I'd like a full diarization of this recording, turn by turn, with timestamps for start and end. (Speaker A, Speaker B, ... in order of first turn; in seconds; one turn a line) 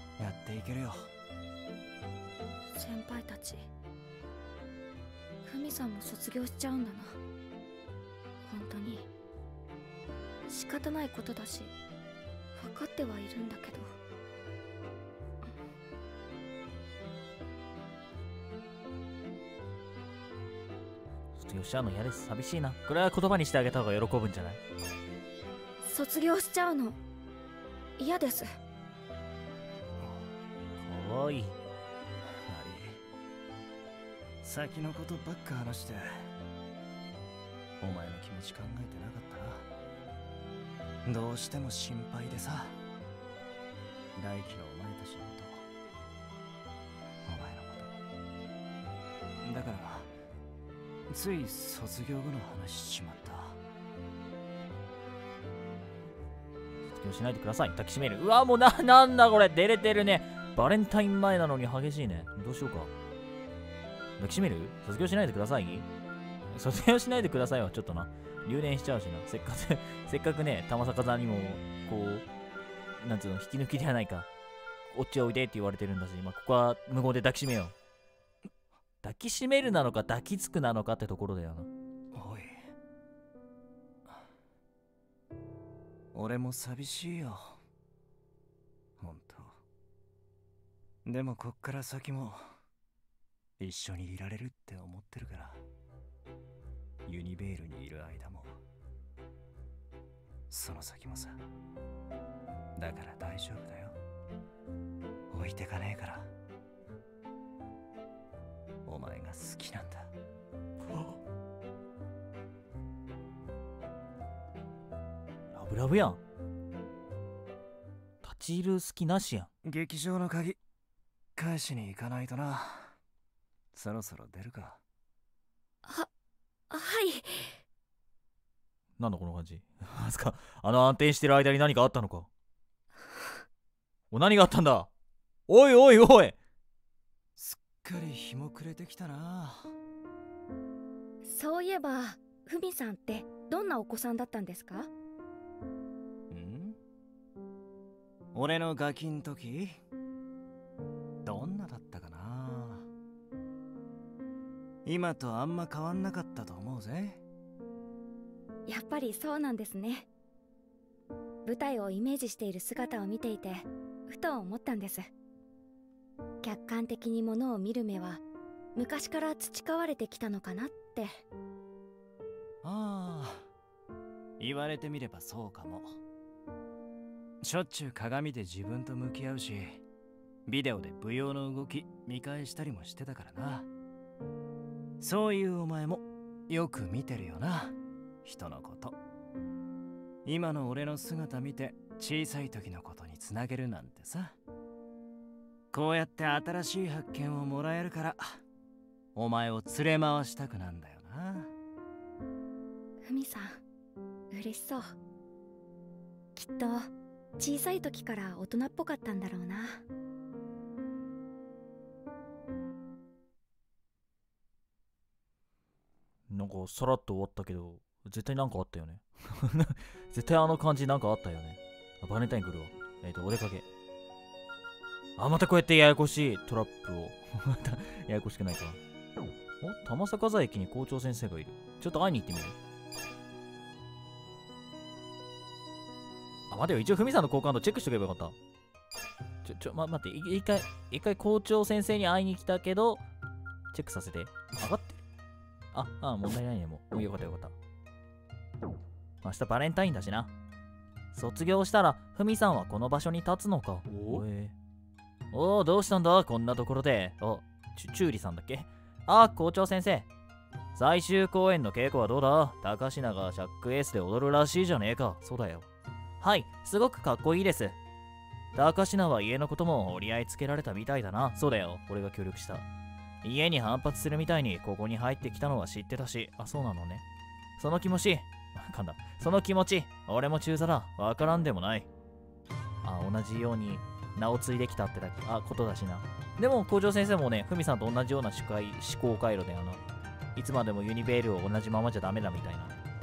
Speaker A: 0.2-1.1
Speaker B: 2.7-3.7
Speaker B: 5.5-7.2
Speaker B: 8.4-9.1
Speaker B: 10.5-11.7
Speaker B: 12.6-13.9
Speaker C: 21.4-24.6
Speaker B: 25.8-27.0
Speaker B: 28.0-28.5
Speaker A: 30.0-30.3
Speaker C: 30.8-31.6
Speaker A: 32.2-33.0
Speaker A: 34.4-36.1
Speaker A: 37.8-39.7
Speaker A: 41.1-42.8
Speaker A: 44.2-45.6
Speaker A: 47.3-48.0
Speaker A: 49.4-50.1
Speaker A: 51.1-53.6
Speaker C: 56.9-62.9
Speaker C: 64.2-65.9
Speaker C: 66.5-72.2
Speaker C: 73.0-74.3
Speaker C: 74.9-77.7
Speaker C: 79.0-81.7
Speaker A: 82.1-82.7
Speaker A: 86.1-87.6
Speaker A: 89.0-89.6
Speaker A: 91.0-92.5
Speaker A: 93.6-95.6
Speaker A: 97.1-98.6
Speaker A: 100.5-101.4
Speaker A: 102.8-104.0
Speaker A: 105.3-106.3
Speaker A: 108.9-110.1
Speaker C: 115.5-116.2
Speaker C: 118.2-119.5
Speaker A: 119.7-120.6
Speaker A: 121.4-123.0
Speaker A: 123.7-124.8
Speaker B: 126.7-127.6
Speaker C: 129.0-132.3
Speaker B: 133.0-133.4
Speaker C: 134.1-134.9
Speaker C: 135.5-136.4
Speaker A: 137.4-139.7
Speaker B: 141.2-144.9
Speaker A: 146.3-146.8
Speaker A: 148.3-149.8
Speaker A: 151.2-152.9
Speaker A: 154.9-157.2
Speaker B: 158.7-160.1
Speaker B: 161.4-165.1
Speaker B: 166.4-168.2
Speaker B: 168.8-171.2
Speaker A: 172.6-173.5
Speaker A: 174.4-176.0
Speaker A: 177.4-179.8
Speaker A: 180.5-183.7
Speaker A: 185.0-188.9
Speaker A: 190.2-194.3
Speaker A: 195.7-198.4
Speaker A: 199.2-201.5
Speaker B: 203.0-203.6
Speaker B: 204.3-204.9
Speaker B: 206.4-209.8
Speaker C: 216.3-223.7
Speaker C: 225.2-228.8
Speaker C: 229.6-232.6
Speaker C: 236.5-238.4
Speaker C: 239.4-243.0
Speaker C: 243.7-245.0
Speaker C: 245.7-247.6
Speaker C: 249.2-250.3
Speaker C: 251.1-254.6
Speaker C: 255.3-260.1
Speaker C: 260.8-265.7
Speaker C: 266.2-267.8
Speaker C: 268.5-272.7
Speaker C: 273.2-277.0
Speaker C: 277.6-281.9
Speaker C: 282.8-289.8
Speaker C: 290.4-292.8